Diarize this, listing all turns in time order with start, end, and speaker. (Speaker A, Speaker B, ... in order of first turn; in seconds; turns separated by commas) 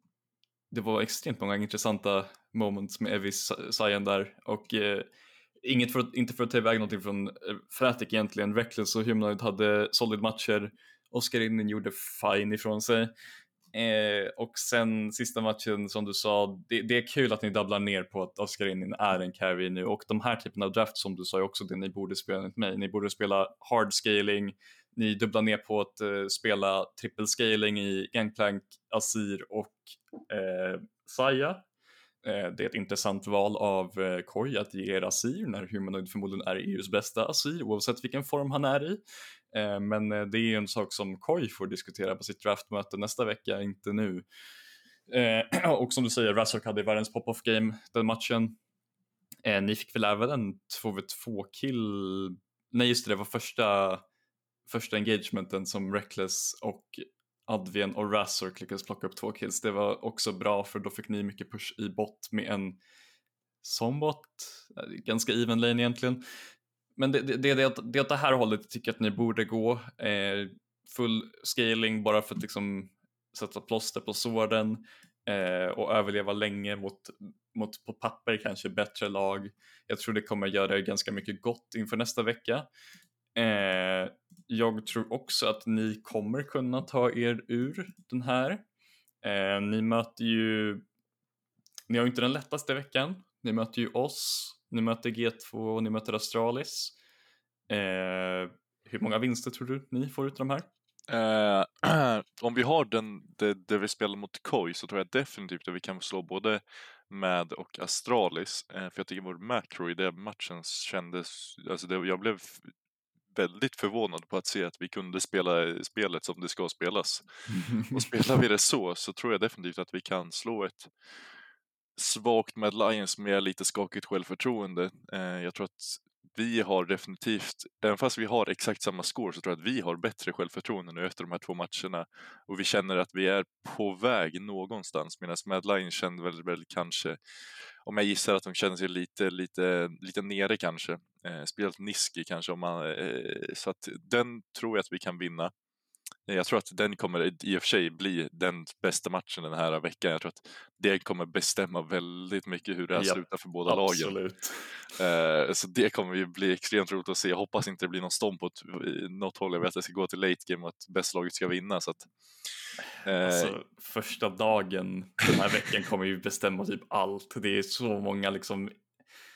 Speaker A: 0.7-5.1, Speaker A: 5.6-13.1, Speaker A: 13.7-31.6, Speaker A: 32.2-39.0, Speaker A: 39.5-44.2, Speaker A: 45.1-48.6, Speaker A: 49.4-54.0, Speaker A: 54.7-62.8, Speaker A: 63.6-66.2, Speaker A: 67.0-82.7, Speaker A: 83.3-88.6, Speaker A: 89.2-90.8, Speaker A: 91.9-96.9, Speaker A: 97.7-100.7, Speaker B: 101.1-112.7, Speaker B: 113.3-120.9, Speaker A: 117.5-118.0, Speaker B: 122.0-137.2, Speaker B: 137.8-145.5, Speaker B: 146.3-154.1, Speaker A: 152.9-154.7, Speaker B: 154.9-162.1, Speaker B: 163.0-163.6, Speaker A: 163.2-168.7